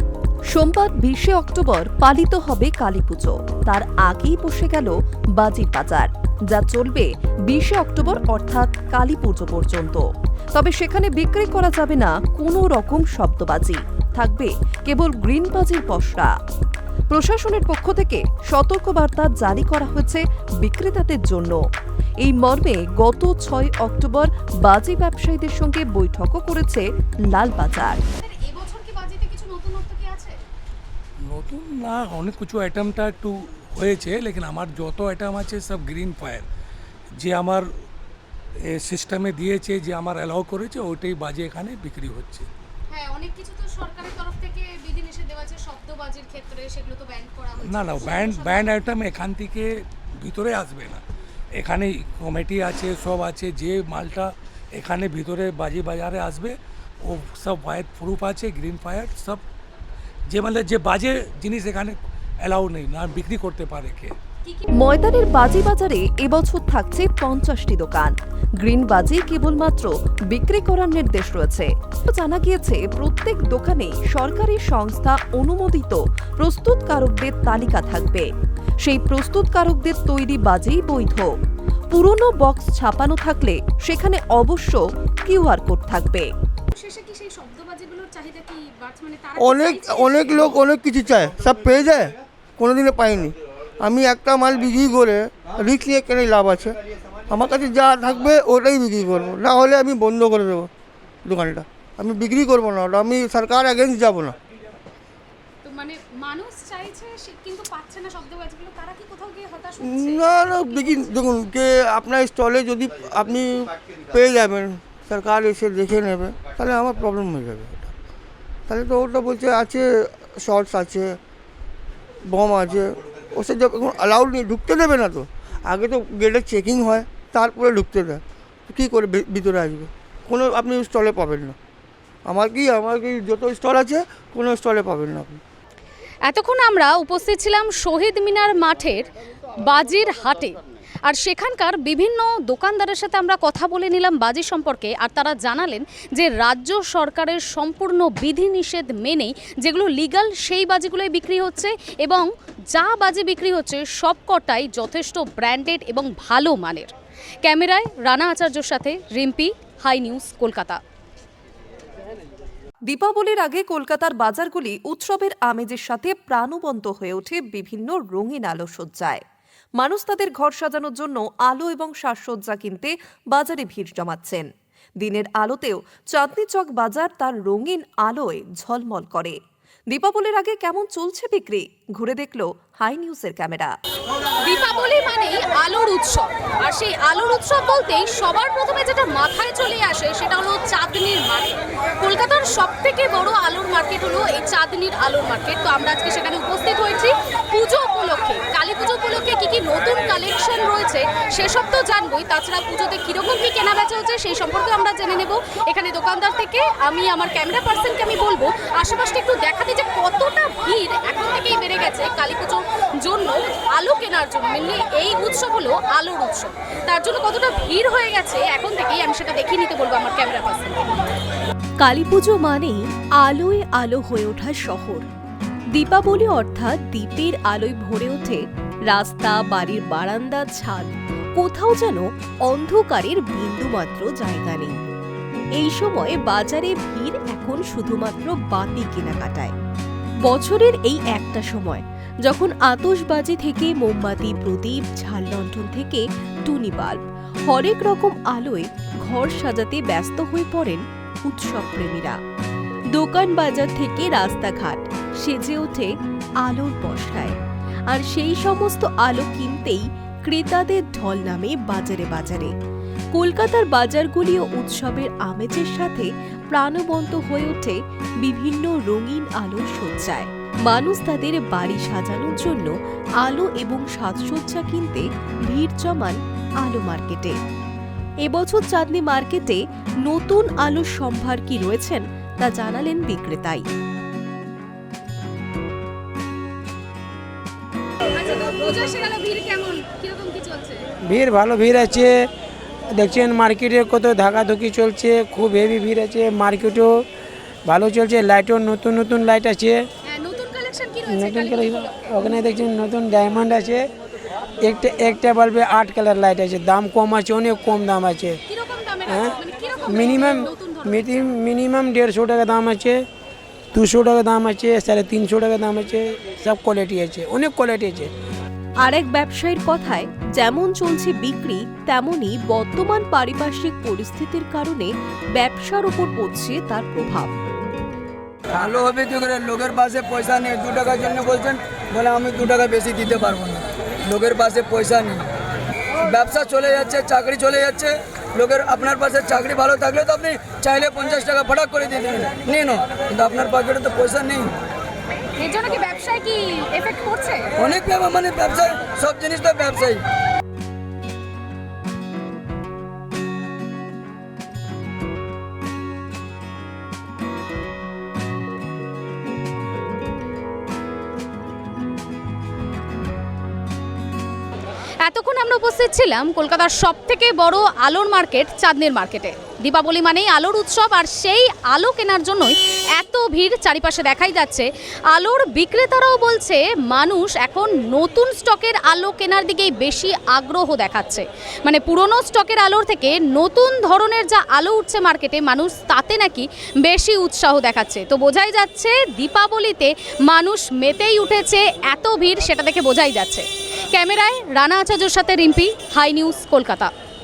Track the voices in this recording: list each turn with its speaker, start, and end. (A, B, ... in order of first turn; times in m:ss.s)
0:00.5-0:16.3 A
0:17.1-0:21.6 A
0:22.2-0:28.0 A
0:28.2-0:30.3 B
0:31.3-0:36.4 C
0:37.2-0:37.6 C
0:38.7-0:42.5 C
0:42.9-0:48.7 B
0:47.6-0:49.7 C
0:50.2-0:51.0 C
0:51.6-0:59.4 C
1:00.3-1:04.1 C
1:04.7-1:18.3 A
1:18.8-1:21.3 A
1:21.9-1:26.3 A
1:26.7-1:30.6 B
1:29.4-1:40.7 D
1:41.2-1:44.4 D
1:45.6-1:51.3 B
1:49.8-1:57.9 D
1:58.7-2:01.2 D
2:02.2-2:11.6 D
2:12.3-2:15.4 D
2:16.2-2:36.9 B
2:37.4-2:40.8 B
2:42.9-2:49.2 A
2:49.8-2:54.5 A
2:55.0-2:59.4 A
2:59.9-3:03.7 A
3:04.4-3:41.0 B
3:41.8-3:45.1 E
3:45.7-3:54.8 E
3:55.6-3:59.5 E
4:00.2-4:12.2 E
4:12.9-4:15.9 E
4:16.4-4:17.4 E
4:17.9-4:22.5 E
4:23.1-4:37.4 E
4:38.2-4:43.6 E
4:48.1-4:50.8 B
4:51.1-4:52.1 F
4:53.0-4:56.9 F
4:57.7-4:59.8 F
5:00.1-5:02.3 B
5:01.1-5:03.8 F
5:04.6-5:08.4 F
5:08.4-5:11.3 B
5:09.1-5:09.3 F
5:09.9-5:13.0 F
5:13.7-5:18.1 F
5:18.8-5:27.3 E
5:28.5-5:35.2 G
5:36.0-5:44.5 G
5:45.4-5:47.5 B
5:47.6-5:50.0 G
6:05.0-6:36.9 B